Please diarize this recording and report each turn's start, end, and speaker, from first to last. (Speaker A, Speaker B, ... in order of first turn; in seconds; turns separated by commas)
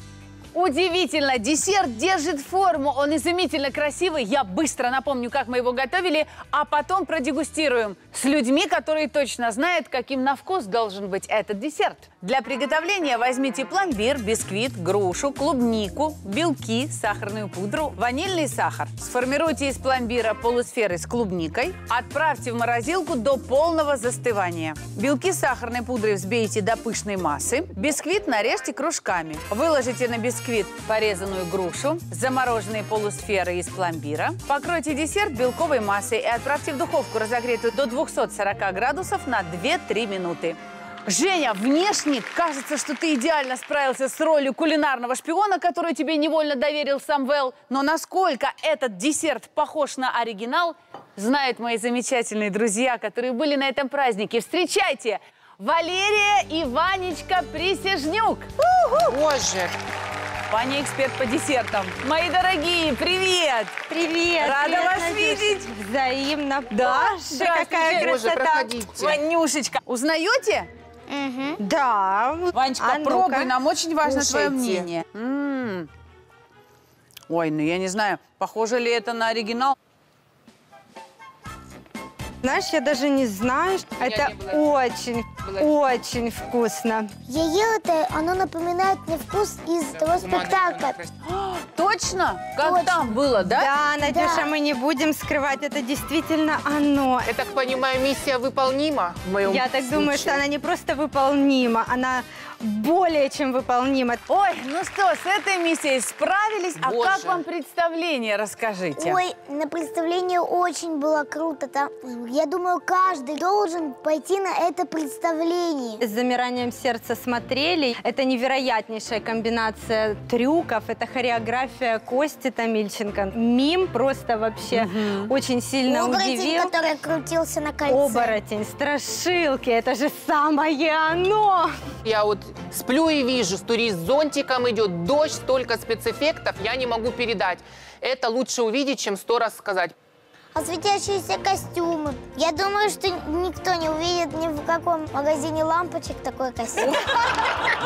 Speaker A: 0.5-59.1, Speaker B: 59.1-59.8, Speaker A: 60.5-63.8, Speaker C: 63.9-68.8, Speaker A: 64.4-65.7, Speaker A: 66.7-68.2, Speaker B: 67.9-69.2, Speaker A: 68.9-70.7, Speaker C: 71.2-73.5, Speaker A: 72.5-75.9, Speaker A: 77.3-79.7, Speaker C: 82.4-87.1, Speaker B: 84.0-84.8, Speaker B: 85.4-85.7, Speaker D: 87.2-91.0, Speaker B: 89.9-91.1, Speaker A: 91.2-93.7, Speaker D: 92.6-93.3, Speaker C: 93.3-97.3, Speaker D: 94.0-94.5, Speaker B: 97.2-100.4, Speaker C: 99.4-104.2, Speaker A: 104.3-109.2, Speaker B: 106.8-107.4, Speaker D: 108.9-116.0, Speaker C: 116.0-126.7, Speaker A: 124.7-125.3, Speaker D: 125.8-128.4, Speaker C: 127.8-131.7, Speaker B: 132.0-139.9, Speaker D: 140.5-147.0, Speaker A: 146.9-147.4